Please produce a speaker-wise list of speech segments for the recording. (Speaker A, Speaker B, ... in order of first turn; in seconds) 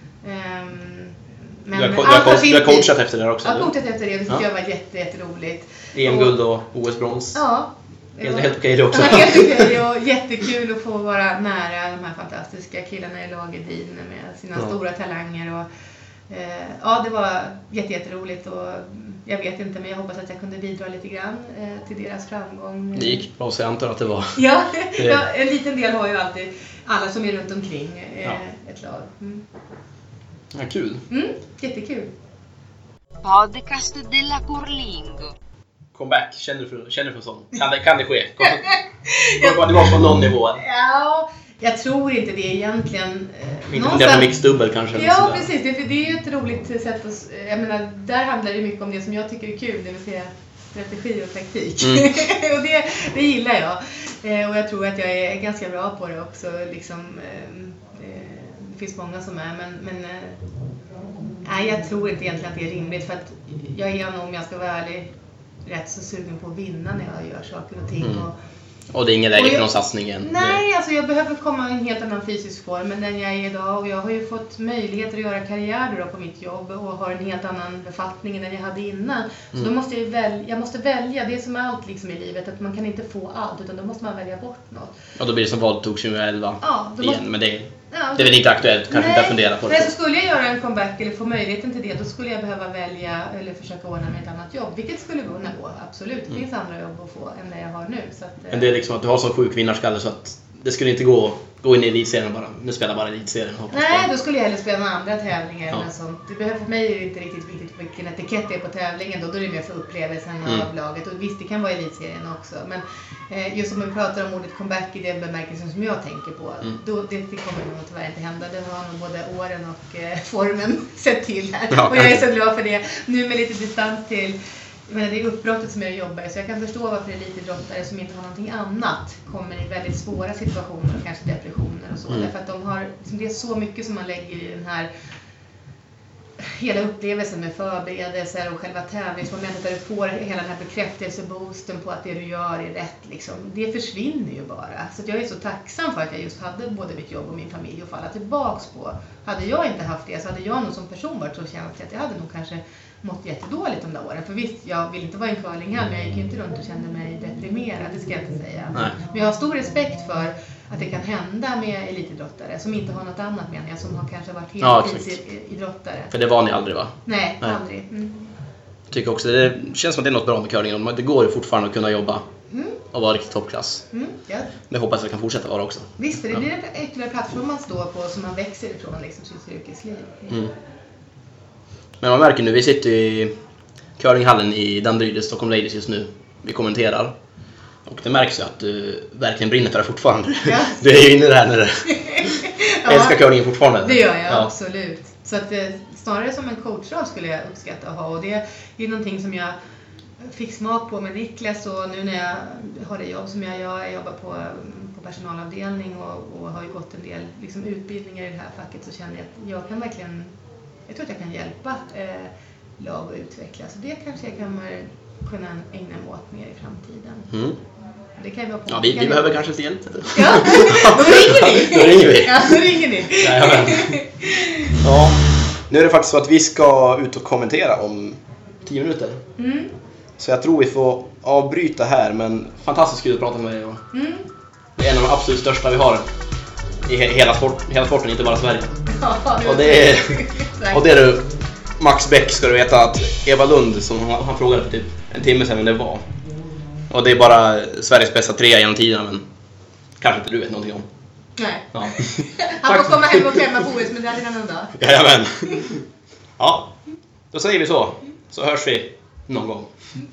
Speaker A: 0.2-6.3, 7.3-15.7, 16.3-23.3, 24.3-29.4, 31.1-32.1, 38.5-40.0, 40.5-44.3, 44.9-60.4, 61.4-65.1, 65.6-68.3, 69.3-85.0, 86.6-87.2, 87.9-98.7, 103.7-134.9, 136.4-166.1, 167.1-168.3, 172.5-172.8, 173.9-174.5, 176.0-180.5, 190.4-190.8, 192.0-193.2, 193.8-199.6, 200.2-210.3, 210.9-217.3, 218.2-219.4, 220.1-224.8, 229.4-229.7, 233.9-234.2, 238.9-240.9, 251.4-254.8
Speaker B: 1.7-3.7, 5.9-7.4, 8.2-9.8, 22.9-24.4, 25.0-25.2, 30.5-31.0, 35.9-38.7, 39.2-40.6, 43.7-45.5, 51.8-52.1, 68.0-68.2, 68.9-70.6, 85.2-89.9, 98.5-104.1, 121.7-122.2, 164.6-165.2, 166.1-167.6, 168.9-172.2, 172.9-173.8, 174.7-176.4, 182.0-183.3, 184.0-187.1, 187.8-192.3, 192.8-194.5, 217.3-217.6, 218.7-224.0, 224.8-229.2, 230.2-233.8, 234.8-236.1, 236.8-238.7, 239.4-241.2, 241.8-246.0, 246.9-249.2, 250.0-250.9, 251.7-253.4, 254.8-255.8, 256.4-256.7, 257.3-259.7
Speaker C: 33.2-35.3